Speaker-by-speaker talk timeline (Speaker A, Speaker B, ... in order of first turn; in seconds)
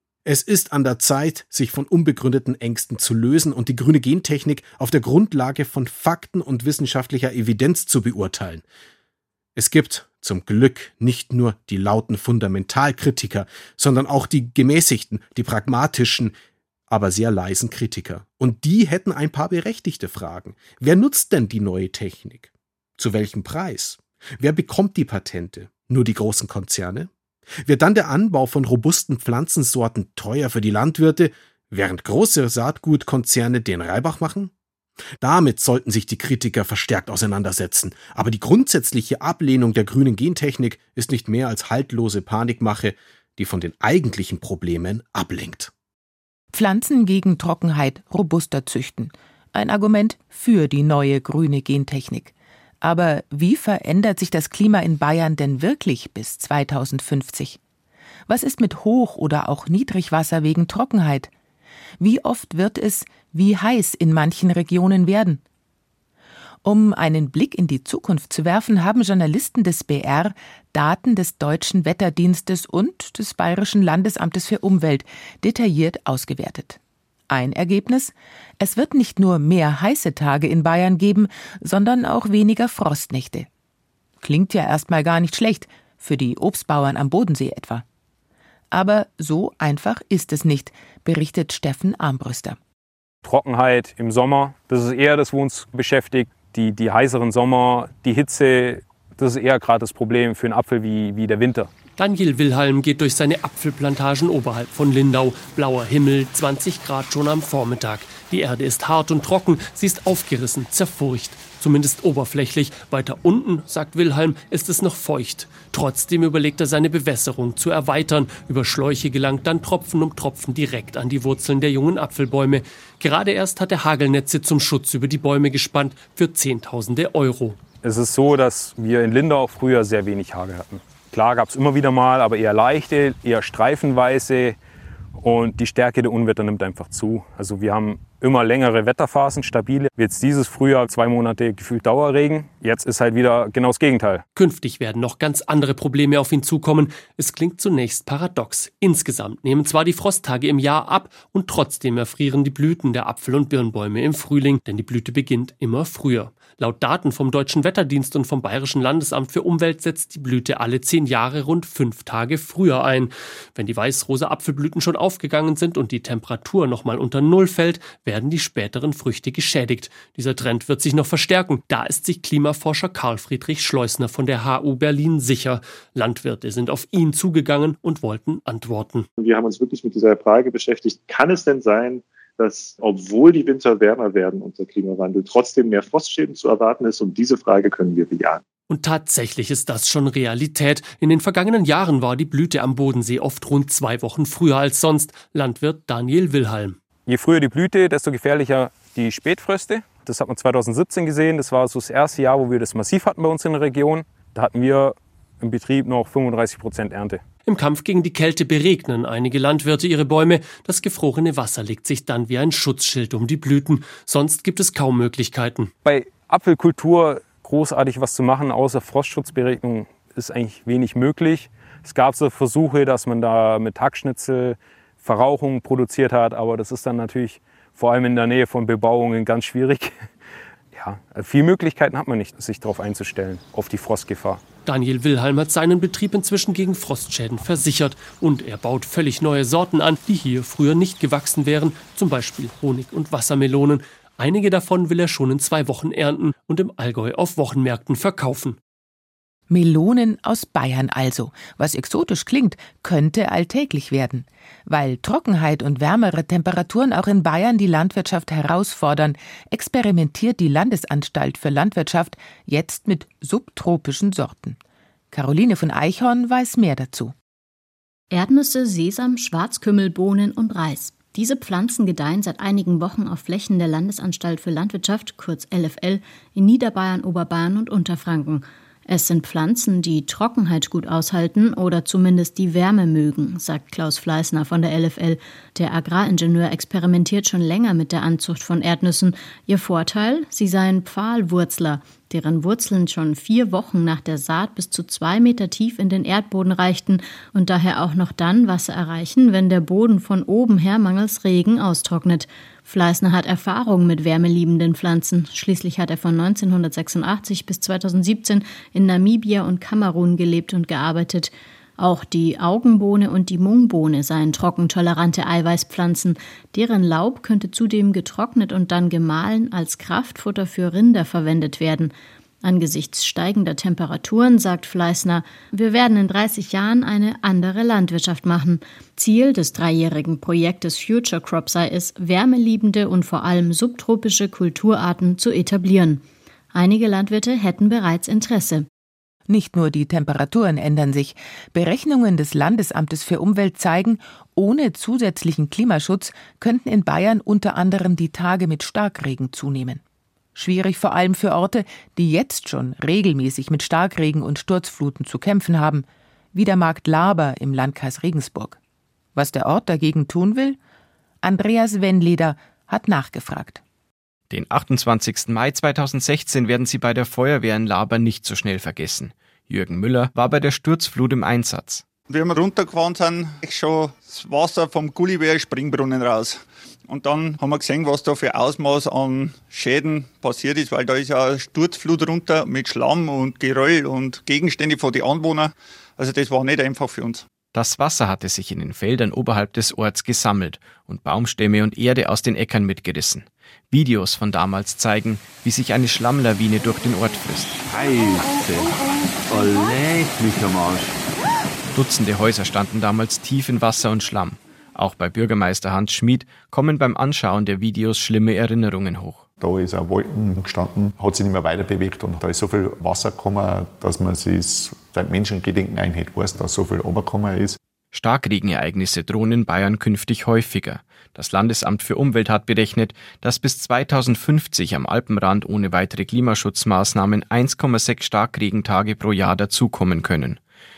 Speaker A: 0.2-8.6, 9.6-16.3, 16.9-27.1, 27.6-34.5, 35.2-45.7
Speaker B: 46.5-57.6, 58.3-61.3, 62.0-65.4, 66.6-76.8, 77.3-83.5, 84.2-87.8, 88.7-92.6, 249.5-264.6, 265.1-267.1, 339.3-349.8, 350.3-358.6, 359.1-360.6, 361.2-363.6
Speaker C: 93.2-101.7, 127.8-134.6, 135.2-144.2, 197.1-207.2, 215.8-230.0, 230.7-234.4
Speaker D: 102.0-127.6, 144.3-179.1, 188.7-196.8, 207.4-215.7, 234.6-248.6
Speaker E: 179.2-188.4
Speaker F: 268.1-338.7
Speaker G: 364.3-371.8, 387.5-397.6, 401.7-409.2, 417.9-430.4
Speaker H: 372.1-387.2
Speaker I: 397.6-401.0
Speaker J: 409.4-417.6